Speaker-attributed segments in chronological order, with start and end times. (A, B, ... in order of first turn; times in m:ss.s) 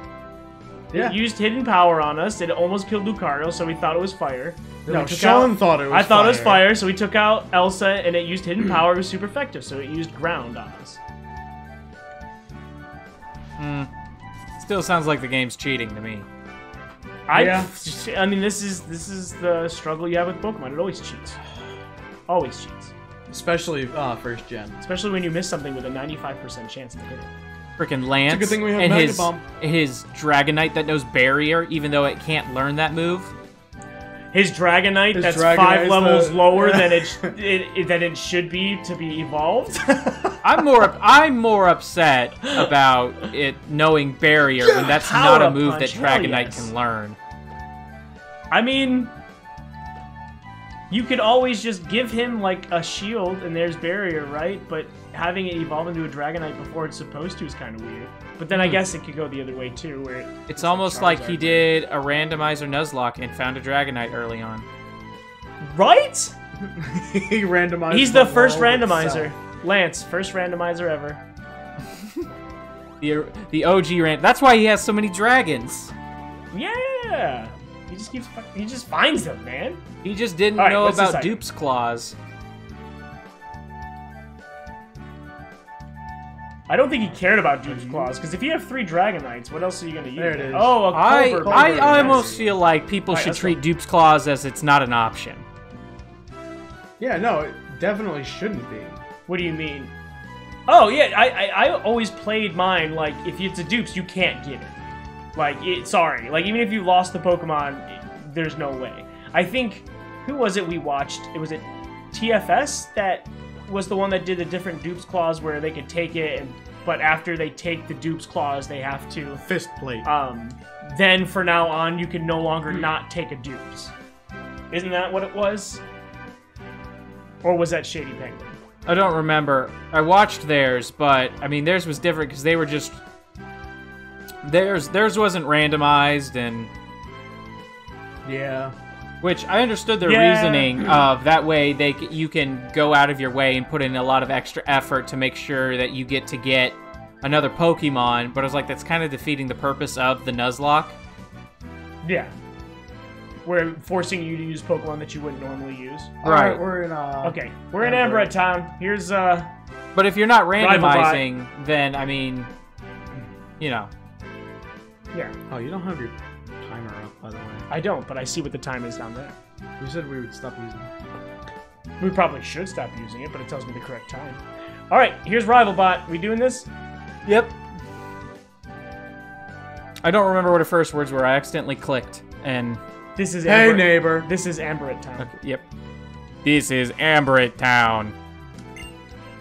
0:00.9-0:01.2 A
0:00.9-0:11.0 B
0:04.9-0:06.8 A
0:13.6-0:13.9 C
0:14.6-0:16.3 C
0:17.3-0:21.4 B
0:17.3-0:17.7 A
0:22.3-0:22.9 B
0:23.3-0:24.8 A
0:24.8-0:27.3 B
0:27.8-0:33.3 C
0:28.3-0:29.4 A
0:34.3-0:40.4 B
0:35.1-0:37.3 A
0:40.4-0:47.2 C
0:44.7-0:46.7 B
0:48.5-0:49.1 B
0:50.9-1:01.7 B
0:58.5-0:58.8 C
1:00.5-1:04.7 C
1:05.6-1:06.4 B
1:06.6-1:09.3 A
1:07.9-1:11.2 B
1:12.0-1:12.2 C
1:13.0-1:15.9 C
1:16.5-1:19.8 B
1:20.0-1:22.2 C
1:20.6-1:21.4 B
1:26.7-1:32.5 B
1:27.6-1:28.1 A
1:30.2-1:30.9 A
1:30.9-1:35.5 C
1:31.4-1:32.5 A
1:33.1-1:33.6 B
1:37.0-1:39.0 A
1:39.3-1:39.9 B
1:40.7-1:44.8 B
1:45.4-1:59.4 B
1:59.4-2:00.1 A
2:00.0-2:03.9 B
2:04.7-2:05.8 B
2:07.4-2:08.6 B
2:08.9-2:13.0 C
2:14.4-2:16.7 C
2:18.2-2:18.8 A
2:19.2-2:31.0 C
2:20.0-2:20.8 B
2:32.0-2:32.3 B
2:33.5-2:36.1 B
2:36.2-2:38.3 A
2:36.2-2:36.6 C
2:37.2-2:39.5 B
2:40.0-2:42.5 C
2:40.6-2:41.2 B
2:43.6-2:43.9 C
2:45.5-2:47.7 A
2:47.7-2:49.4 B
2:49.8-2:50.9 A
2:52.0-2:56.7 B
2:57.3-2:57.6 C
3:00.0-3:02.8 C
3:03.2-3:05.3 B
3:03.5-3:04.3 A
3:05.2-3:05.6 C
3:06.4-3:08.2 C